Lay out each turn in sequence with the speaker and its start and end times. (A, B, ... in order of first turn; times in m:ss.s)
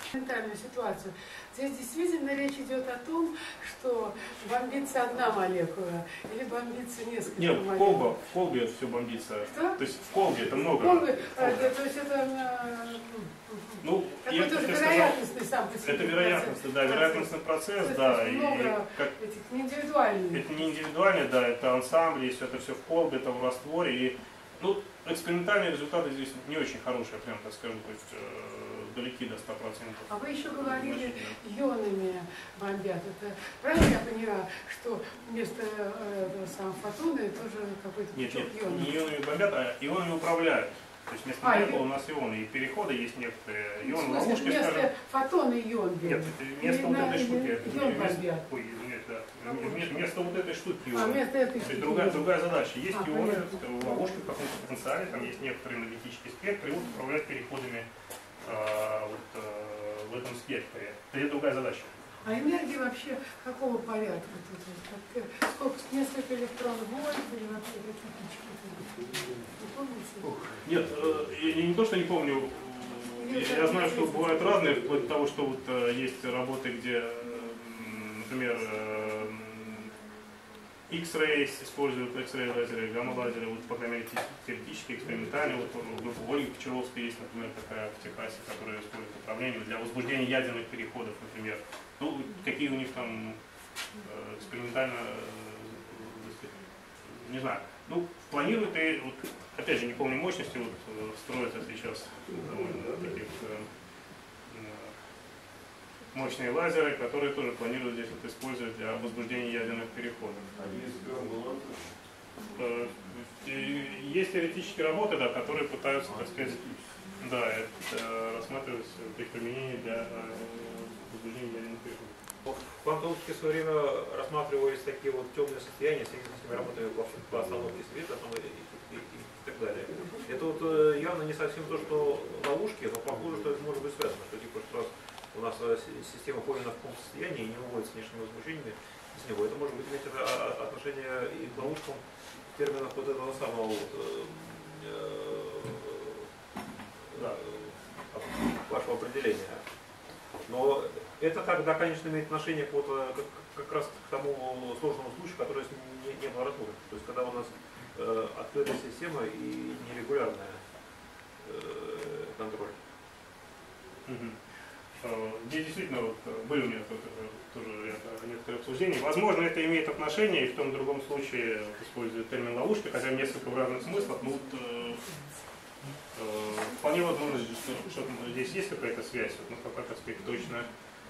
0:00.1-0:08.2 A
0:07.4-0:11.7 B
0:09.5-0:20.5 A
0:13.8-0:15.2 B
0:15.7-0:19.1 B
0:20.3-0:31.3 B
0:30.1-0:39.0 A
0:38.1-0:44.9 B
0:41.4-0:41.8 A
0:43.8-0:48.4 A
0:46.0-0:57.9 B
0:49.4-0:49.9 A
0:50.9-0:52.3 A
0:52.9-0:54.0 A
0:58.4-1:01.9 B
1:02.2-1:10.3 A
1:10.3-1:19.9 B
1:13.2-1:14.6 A
1:20.9-1:33.4 B
1:34.0-1:43.7 B
1:44.5-1:44.9 B
1:46.1-1:50.5 B
1:52.6-1:56.6 B
1:57.2-2:02.1 B
2:02.4-2:26.2 C
2:27.1-2:29.6 C
2:30.4-2:40.6 C
2:41.4-2:42.8 C
2:44.0-2:44.4 B
2:45.0-2:55.1 B
2:56.1-3:00.7 B